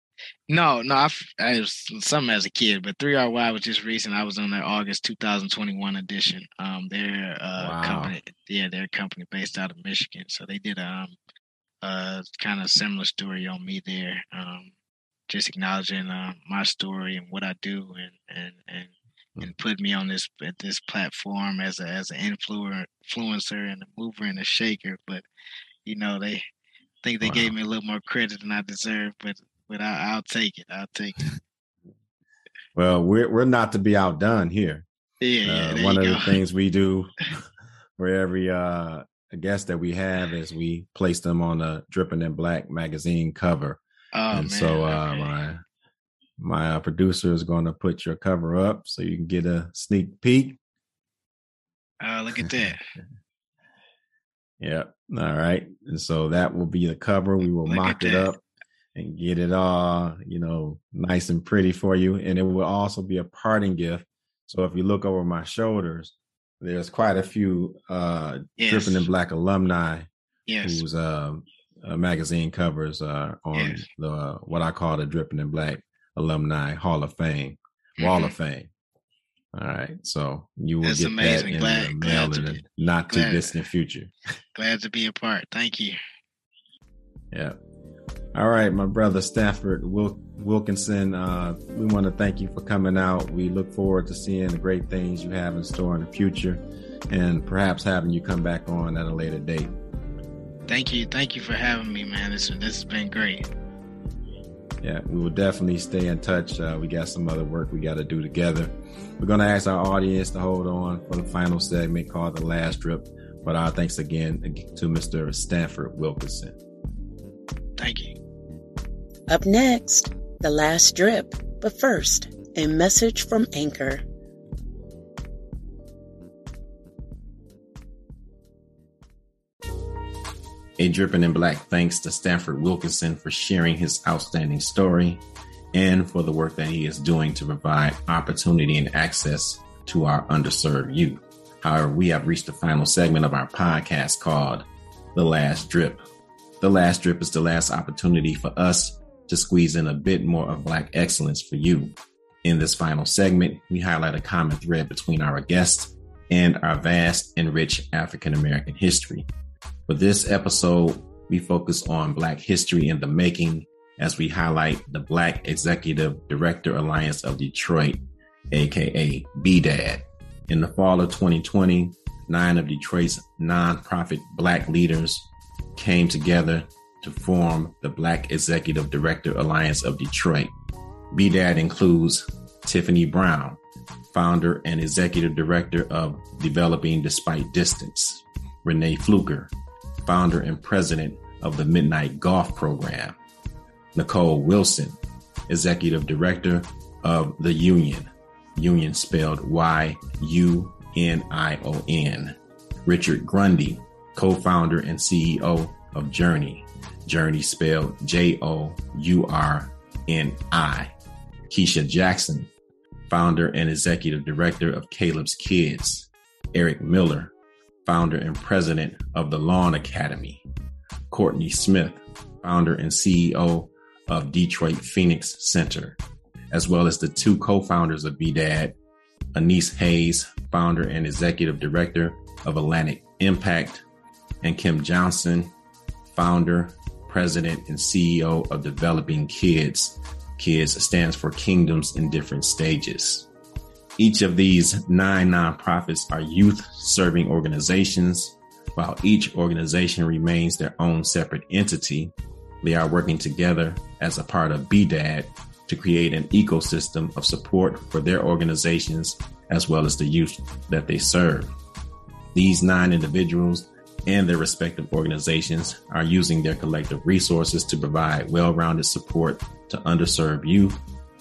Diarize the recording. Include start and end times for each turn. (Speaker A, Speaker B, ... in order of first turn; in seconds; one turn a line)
Speaker A: 0.5-11.2
Speaker B: 7.6-8.1
Speaker A: 11.8-14.7
Speaker A: 15.3-25.2
Speaker A: 25.8-26.4
Speaker A: 27.0-31.3
Speaker B: 27.2-27.5
Speaker B: 32.7-34.9
Speaker A: 35.2-36.4
Speaker B: 35.4-37.4
Speaker B: 38.0-45.6
Speaker A: 44.1-45.3
Speaker B: 46.4-50.6
Speaker A: 52.0-52.8
Speaker B: 54.6-58.4
Speaker A: 57.7-58.3
Speaker B: 58.9-70.1
Speaker A: 68.6-69.0
Speaker A: 70.5-70.8
Speaker B: 70.6-78.7
Speaker A: 73.5-73.9
Speaker A: 78.0-78.3
Speaker B: 79.5-84.1
Speaker A: 80.8-83.6
Speaker A: 84.5-86.0
Speaker B: 88.3-99.7
Speaker A: 100.7-103.5
Speaker B: 104.8-116.5
Speaker A: 117.8-118.2
Speaker C: 119.3-124.0
Speaker B: 130.8-135.2
Speaker B: 135.7-146.0
Speaker B: 146.6-159.3
Speaker B: 159.9-180.5
Speaker B: 181.1-183.6
Speaker B: 184.1-189.5
Speaker B: 190.1-193.2
Speaker B: 193.9-210.9
Speaker B: 211.5-212.5
Speaker B: 213.1-217.3
Speaker B: 217.8-220.4
Speaker B: 221.1-226.0
Speaker B: 226.5-228.8
Speaker B: 229.3-233.8
Speaker B: 234.4-235.5
Speaker B: 236.1-243.3
Speaker B: 244.0-261.5
Speaker B: 262.3-270.8